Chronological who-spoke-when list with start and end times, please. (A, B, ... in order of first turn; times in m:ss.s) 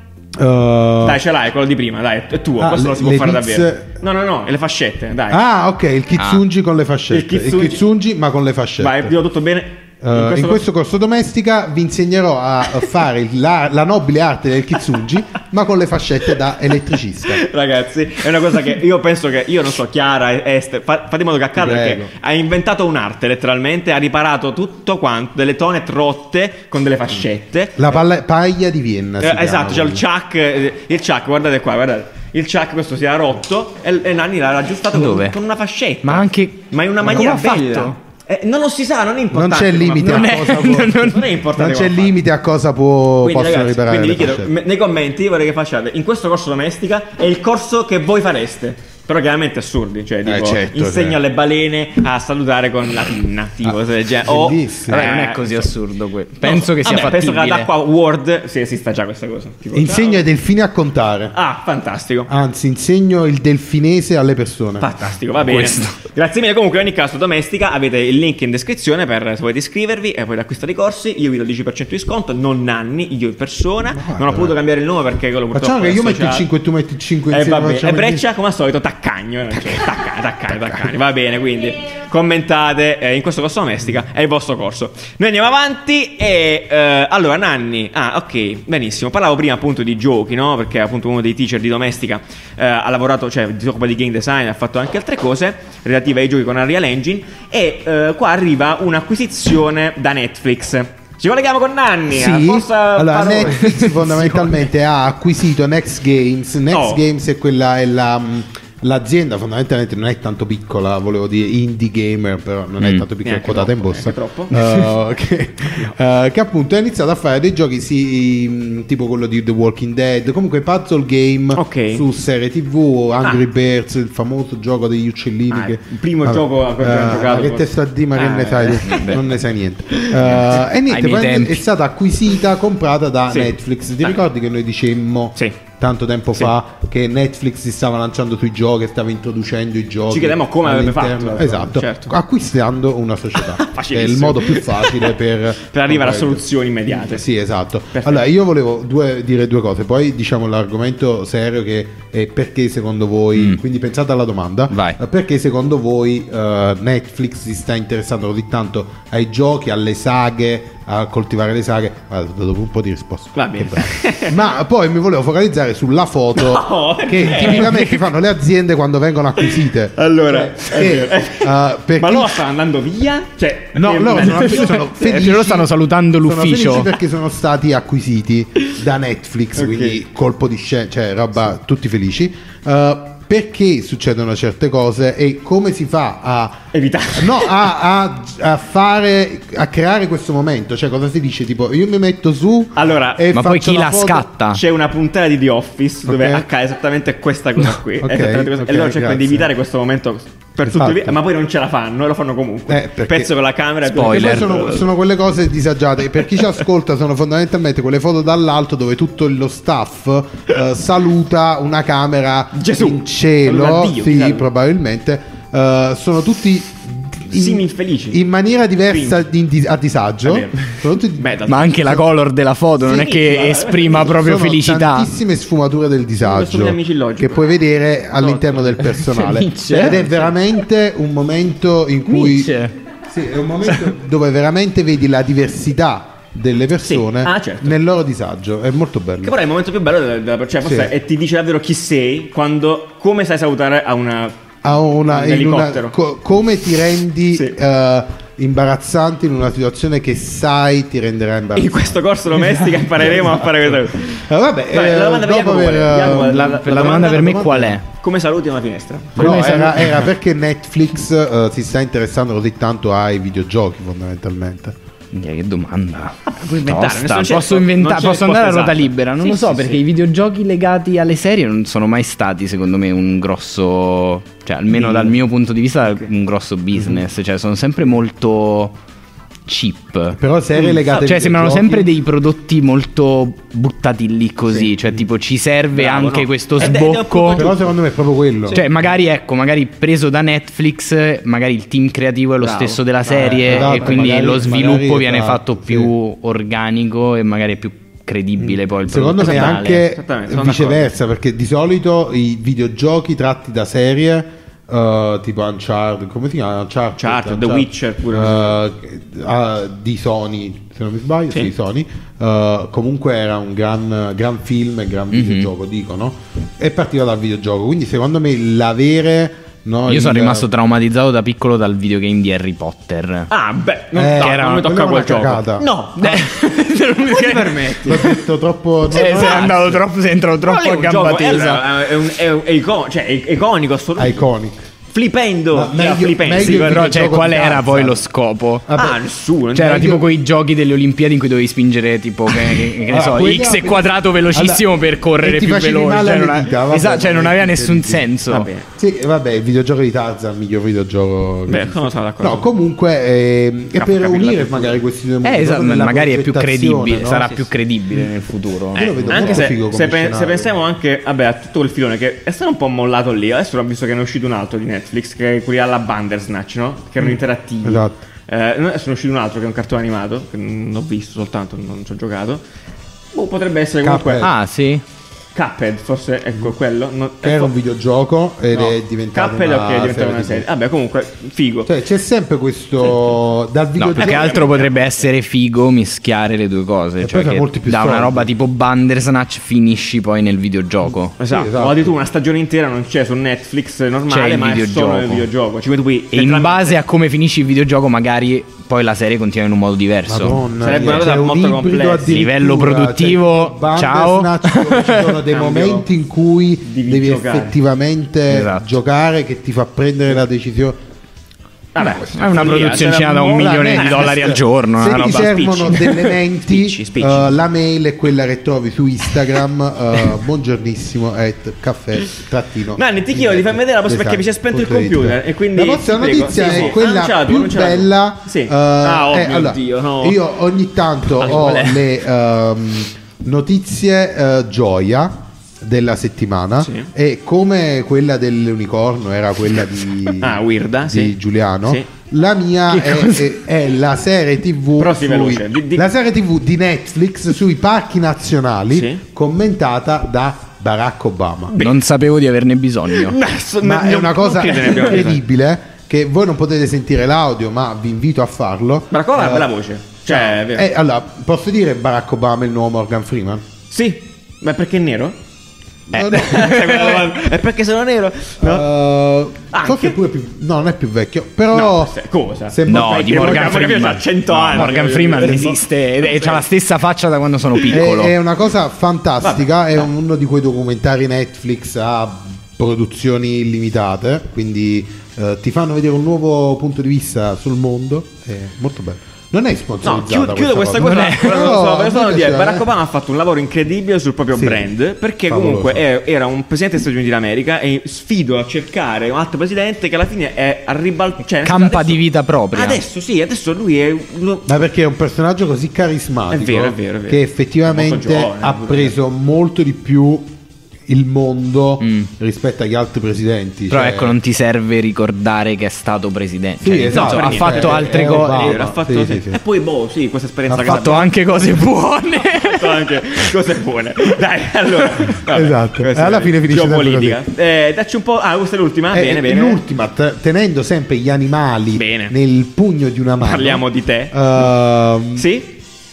0:00.4-0:01.2 A
0:01.0-0:05.4 B
0:02.6-0:03.9 A
0:05.3-0:09.1 A
0:06.2-0:06.4 C
0:07.1-0:07.8 B
0:08.8-0:10.6 B
0:10.0-0:17.4 A
0:17.2-0:28.0 B
0:21.6-0:22.1 A
0:27.8-0:30.0 A
0:29.2-0:42.1 B
0:34.9-0:35.4 C
0:36.0-0:38.0 C
0:39.3-0:44.5 A
0:40.0-0:41.3 C
0:43.2-0:55.7 B
0:50.2-0:51.2 A
0:53.6-0:55.1 A
0:54.9-0:57.7 C
0:56.4-1:00.2 B
0:59.7-1:01.4 A
1:01.3-1:02.3 B
1:02.3-1:04.9 A
1:04.8-1:16.5 B
1:05.4-1:06.0 C
1:13.9-1:14.6 A
1:15.5-1:18.2 A
1:17.3-1:44.3 B
1:20.5-1:20.8 A
1:42.1-2:52.4 A
1:46.7-1:47.0 B
1:53.2-1:54.6 B
1:54.6-1:54.8 C
2:01.6-2:02.0 B
2:05.5-2:09.3 B
2:08.9-2:09.2 C
2:09.9-2:10.4 B
2:10.9-2:11.6 C
2:13.3-2:14.2 B
2:20.1-2:22.2 B
2:23.4-2:27.2 B
2:27.9-2:28.3 B
2:34.7-2:35.0 C
2:43.4-2:44.5 B
2:46.4-2:47.9 B
2:47.4-2:47.9 C
2:49.4-2:55.3 B
2:53.8-2:55.7 A
2:54.2-2:56.9 C
2:56.2-3:14.3 A
2:59.6-3:00.0 B
3:06.7-3:07.7 B
3:12.8-3:13.2 B
3:13.3-3:14.6 C
3:14.5-3:24.9 B
3:16.1-3:16.4 A
3:18.0-3:19.5 A
3:20.6-3:21.2 A
3:22.7-3:23.3 A
3:23.8-3:24.7 C
3:24.0-3:41.4 A
3:32.5-3:34.5 B
3:37.3-3:38.2 B
3:38.9-3:39.2 B
3:40.2-3:42.0 B
3:41.5-3:45.1 C
3:42.8-3:44.2 B
3:44.0-3:52.5 A
3:46.2-3:47.6 B
3:48.1-3:49.0 B
3:49.0-3:50.1 C
3:49.8-3:50.3 B
3:52.1-3:52.7 C
3:53.1-3:59.3 A
3:56.8-3:57.8 B
3:59.2-4:04.4 B
4:00.6-4:00.9 A
4:04.6-4:17.8 A
4:05.0-4:06.0 B
4:11.6-4:20.0 B
4:16.0-4:17.8 C
4:19.2-4:20.1 C
4:19.2-4:24.8 A
4:25.1-4:38.8 C
4:26.3-4:29.8 B
4:34.7-4:35.1 B
4:39.5-4:47.5 C
4:40.1-4:41.9 A
4:44.5-4:44.7 B
4:45.7-4:47.7 B
4:47.4-4:48.6 A
4:48.5-4:59.8 C
4:52.4-4:54.6 B
4:53.1-4:55.9 A
4:58.4-5:20.5 A
4:59.2-5:00.9 B
5:07.0-5:08.6 B
5:15.1-5:15.5 C
5:19.9-5:23.3 C
5:23.3-5:26.3 B
5:23.9-5:25.7 A
5:24.2-5:24.7 C
5:26.0-5:28.1 C
5:27.0-5:28.2 B
5:27.8-5:29.8 A
5:28.9-5:31.8 C
5:28.9-5:29.8 B
5:30.4-5:34.3 B
5:34.0-5:34.6 A
5:34.9-5:36.9 B
5:35.5-5:38.0 A
5:36.4-5:38.6 C
5:38.7-5:39.0 A
5:38.8-5:40.0 B
5:39.5-5:48.5 C
5:42.9-5:48.1 A
5:48.3-5:48.7 B
5:48.7-5:57.3 A
5:51.5-5:52.5 B
5:53.8-5:54.8 B
5:55.2-5:59.5 C
5:56.9-5:57.5 B
5:58.7-6:12.4 B
5:58.8-6:00.5 A
6:07.6-6:08.0 A
6:13.1-6:14.3 B
6:13.8-6:14.3 A
6:14.2-6:14.8 C
6:15.4-6:17.6 B
6:17.2-6:20.4 A
6:18.5-6:21.7 B
6:21.7-6:24.4 A
6:23.8-6:31.1 C
6:24.0-6:24.9 B
6:27.0-6:28.3 A
6:31.2-6:36.8 B
6:31.3-6:32.0 A
6:34.1-6:35.3 C
6:36.1-6:40.4 C
6:40.1-6:50.8 A
6:40.6-6:42.2 B
6:42.1-6:45.2 C
6:45.3-6:45.9 B
6:46.6-6:47.6 B
6:48.3-6:48.7 C
6:51.8-6:54.4 B
6:51.8-6:56.0 C
6:53.4-7:31.6 A
6:55.1-6:57.4 B
7:02.8-7:10.2 B
7:11.2-7:11.8 B
7:16.6-7:16.9 B
7:20.2-7:21.9 B
7:22.7-7:23.3 C
7:24.8-7:25.8 B
7:28.7-7:29.0 B
7:31.5-7:31.8 B
7:31.6-7:33.2 C
7:32.9-7:35.2 B
7:33.6-7:39.5 A
7:38.9-7:40.7 B
7:40.1-7:43.4 A
7:43.7-7:45.2 B
7:45.9-7:46.6 A
7:45.9-7:47.2 C
7:46.1-7:48.6 B
7:48.4-7:51.9 A
7:49.5-7:50.0 B
7:51.5-7:56.4 B
7:52.5-7:53.7 A
7:52.7-7:58.1 C
7:54.3-7:54.7 A
7:57.7-8:12.7 A
7:59.2-7:59.5 B
8:09.8-8:22.0 B
8:10.8-8:11.5 C
8:14.4-8:14.7 A
8:15.3-8:15.8 A
8:21.4-8:22.8 C
8:22.5-8:24.5 B
8:24.5-8:30.3 A
8:26.3-8:29.0 B
8:30.9-8:34.2 A
8:31.8-8:32.1 C
8:33.7-8:38.7 C
8:36.6-8:39.4 A
8:36.9-8:41.1 B
8:40.5-8:40.9 A
8:40.6-8:43.3 C
8:42.4-8:49.6 B
8:45.3-8:47.2 A
8:48.9-8:55.3 A
8:51.8-8:52.1 B
8:53.2-8:54.5 B
8:55.2-8:55.6 B